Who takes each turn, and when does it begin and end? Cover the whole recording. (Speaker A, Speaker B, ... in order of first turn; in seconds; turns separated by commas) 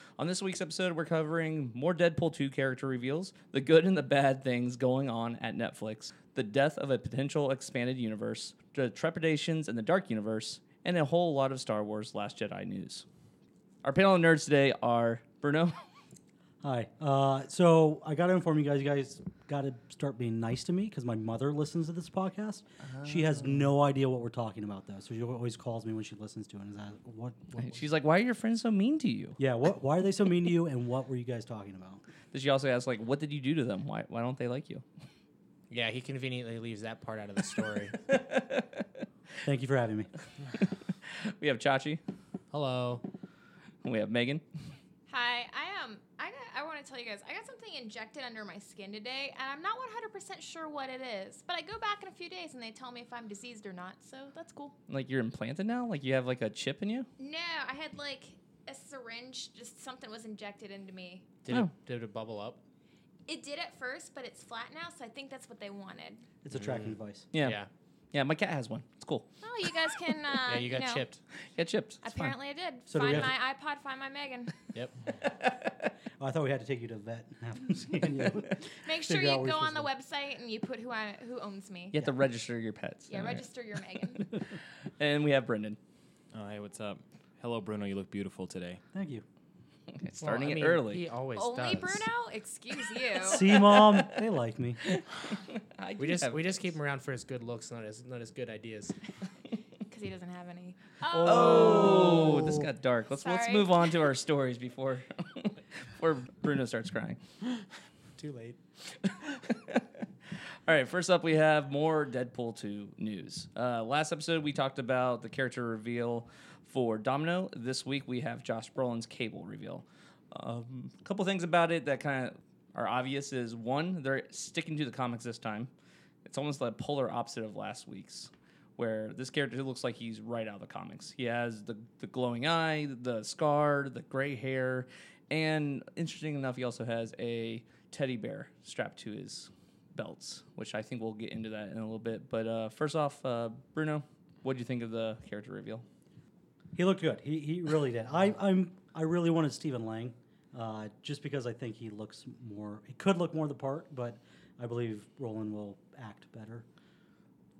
Speaker A: 0.2-13.0, Speaker A: 13.8-15.8, Speaker B: 16.6-27.7, Speaker A: 22.9-23.6, Speaker A: 27.6-29.4, Speaker B: 29.4-32.0, Speaker A: 32.3-34.8, Speaker C: 35.7-38.0, Speaker A: 38.1-39.0, Speaker B: 39.4-40.1, Speaker A: 40.5-42.0, Speaker C: 42.5-43.0, Speaker A: 43.8-44.4, Speaker D: 45.1-54.7, Speaker A: 54.9-57.1, Speaker D: 57.2-61.3, Speaker C: 61.4-62.6, Speaker D: 63.3-66.2, Speaker B: 66.4-67.3, Speaker C: 66.5-67.7, Speaker A: 67.3-67.6, Speaker A: 68.1-69.9, Speaker D: 69.4-71.0, Speaker C: 70.5-71.2, Speaker A: 71.5-72.3, Speaker D: 72.0-74.6, Speaker B: 72.9-73.3, Speaker C: 74.7-75.1, Speaker A: 75.3-75.9, Speaker B: 76.2-79.9, Speaker D: 78.8-82.0, Speaker A: 81.9-83.5, Speaker D: 83.1-84.2, Speaker A: 84.2-85.8, Speaker E: 86.3-88.8, Speaker B: 88.9-89.2, Speaker A: 89.9-91.0, Speaker C: 90.2-92.0, Speaker D: 91.3-93.6, Speaker B: 93.2-94.8, Speaker A: 93.5-94.2, Speaker A: 94.8-96.6, Speaker C: 96.0-99.0, Speaker D: 99.9-102.3, Speaker C: 101.1-102.6, Speaker A: 101.2-107.2, Speaker D: 103.2-104.1, Speaker C: 108.2-108.6, Speaker A: 109.0-110.0, Speaker A: 110.6-125.7, Speaker A: 126.2-145.8, Speaker B: 146.7-156.7